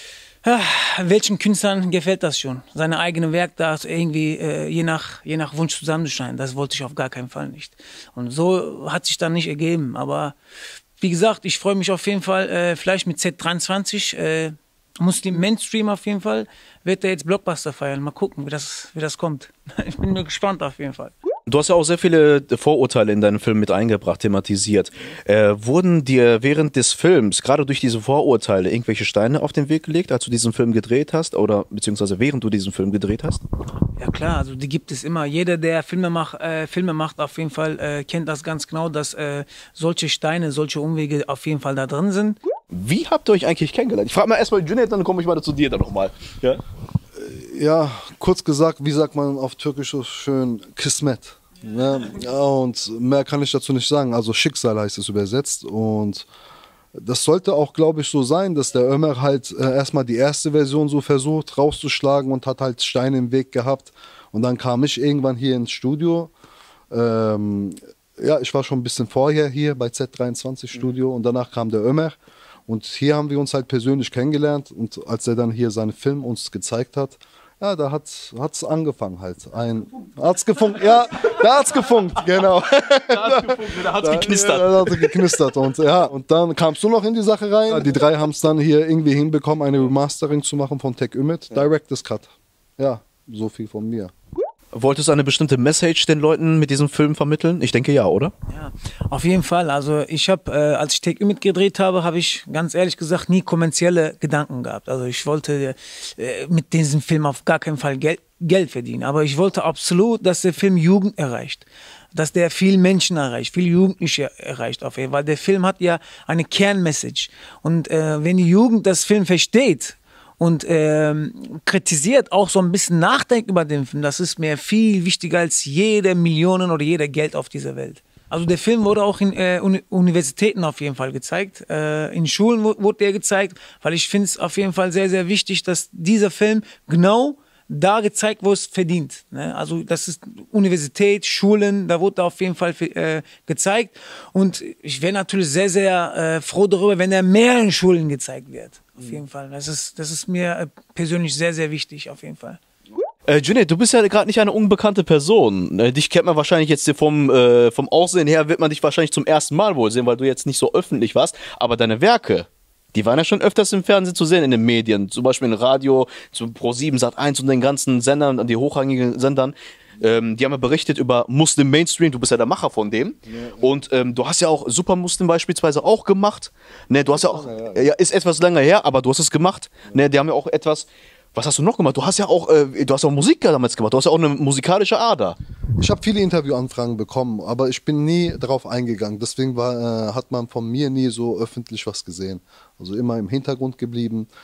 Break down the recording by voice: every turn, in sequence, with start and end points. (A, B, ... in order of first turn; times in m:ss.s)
0:00.4-0:10.4 A
0:11.0-0:21.1 A
0:21.5-0:33.4 B
0:34.0-0:42.4 A
0:42.7-0:46.6 B
0:47.2-0:56.2 C
0:57.0-1:06.3 C
1:06.9-1:34.1 C
1:22.9-1:25.4 B
1:34.7-1:38.3 B
1:38.5-2:32.6 A
2:33.3-3:05.4 B
2:53.3-2:53.7 C
2:57.1-2:57.8 C
3:05.8-3:14.3 C